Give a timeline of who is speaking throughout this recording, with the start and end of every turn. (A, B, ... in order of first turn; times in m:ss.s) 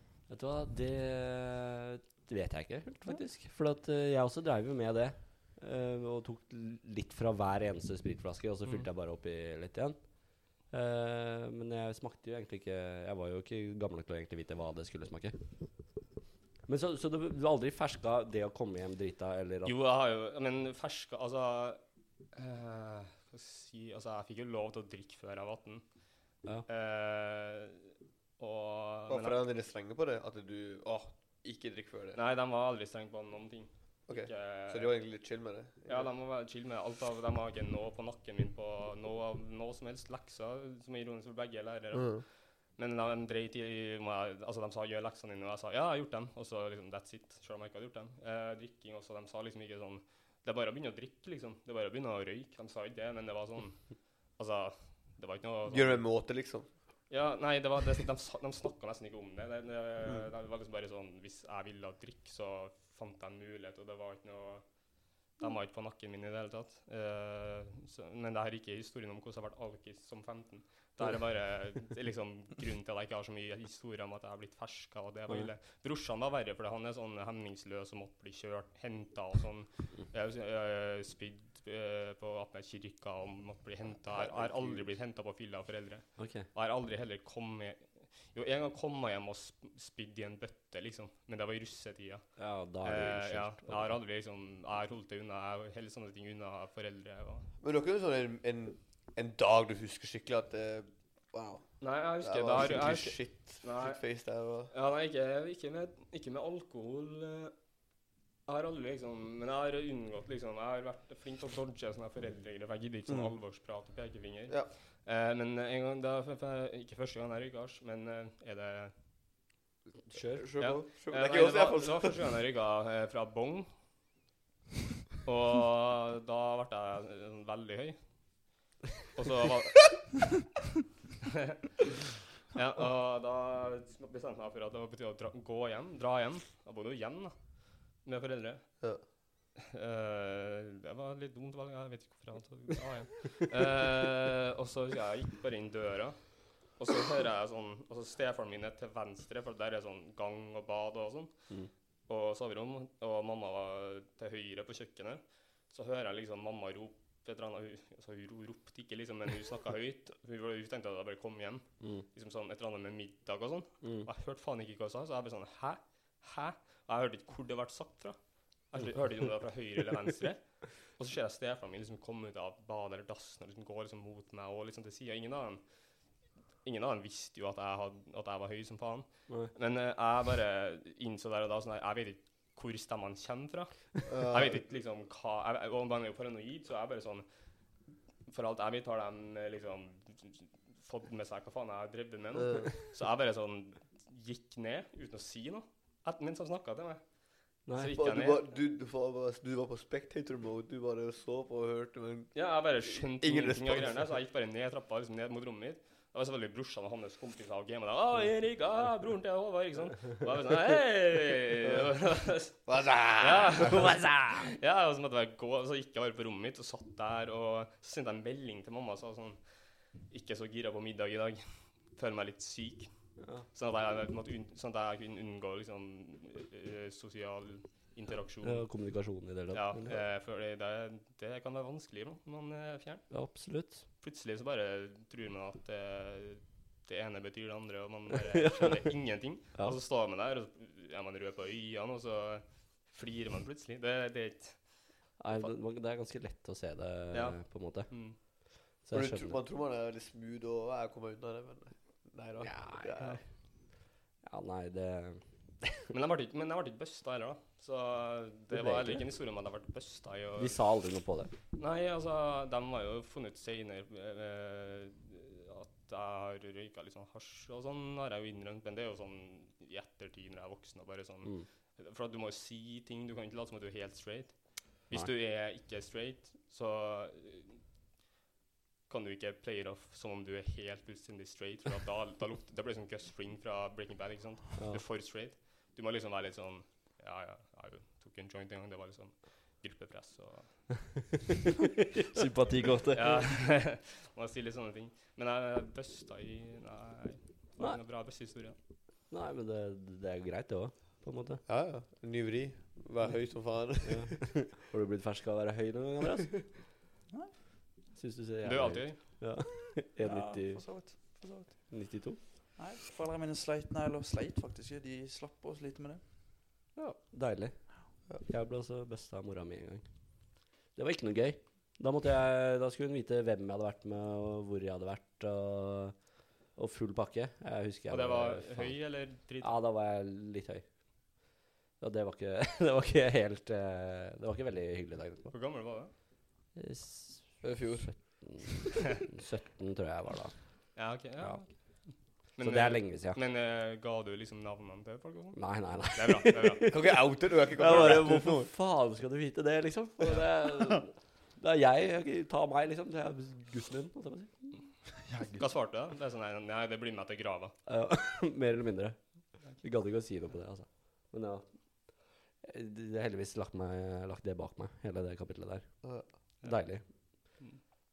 0:00.3-0:15.8 A
0:16.7-0:19.8 A
0:19.6-0:29.5 B
0:29.1-0:32.2 C
0:32.1-0:35.0 B
0:34.1-0:36.1 C
0:35.9-0:56.2 B
0:41.9-0:42.2 C
0:55.7-0:56.7 C
0:57.1-1:37.5 B
1:24.1-1:24.8 C
1:26.2-1:26.5 A
1:32.4-1:34.0 A
1:37.6-1:44.7 C
1:41.8-1:47.6 B
1:48.5-1:58.9 B
1:53.1-1:53.4 C
2:00.1-2:00.8 A
2:00.1-2:02.2 C
2:00.6-2:03.7 B
2:05.2-2:08.4 B
2:09.1-2:10.2 B
2:12.5-2:18.9 B
2:19.7-3:07.3 B
2:43.8-2:44.1 A
3:04.1-3:04.6 C
3:08.2-3:18.5 B
3:12.4-3:12.7 C
3:17.6-3:17.9 A
3:17.9-3:24.0 C
3:22.3-3:48.8 B
3:32.5-3:34.1 C
3:43.2-3:43.4 A
3:48.4-3:50.0 A
3:49.5-3:53.1 B
3:53.1-3:53.8 A
3:54.0-4:05.6 B
3:58.5-3:59.8 A
4:05.2-4:09.4 A
4:07.1-4:08.2 B
4:08.9-4:13.2 C
4:12.4-4:13.2 A
4:14.2-4:15.8 A
4:15.9-4:20.6 B
4:18.5-4:19.0 A
4:20.4-4:21.3 A
4:21.5-4:37.6 B
4:38.9-4:51.1 B
4:44.6-4:44.8 A
4:52.1-4:53.4 D
4:52.9-4:58.6 B
4:57.6-4:57.8 A
4:59.1-5:01.4 A
5:01.5-5:04.5 C
5:03.8-5:06.6 A
5:08.0-5:12.2 A
5:08.4-5:09.0 B
5:10.0-5:11.7 D
5:12.6-5:16.0 D
5:16.8-5:35.3 A
5:27.9-5:29.5 B
5:35.3-5:35.9 B
5:36.5-5:43.2 A
5:37.4-5:38.5 C
5:40.8-5:46.7 B
5:45.4-5:54.6 A
5:46.7-5:48.5 C
5:55.1-5:55.5 D
5:55.3-5:57.6 B
5:57.7-6:07.4 A
6:06.4-6:07.6 B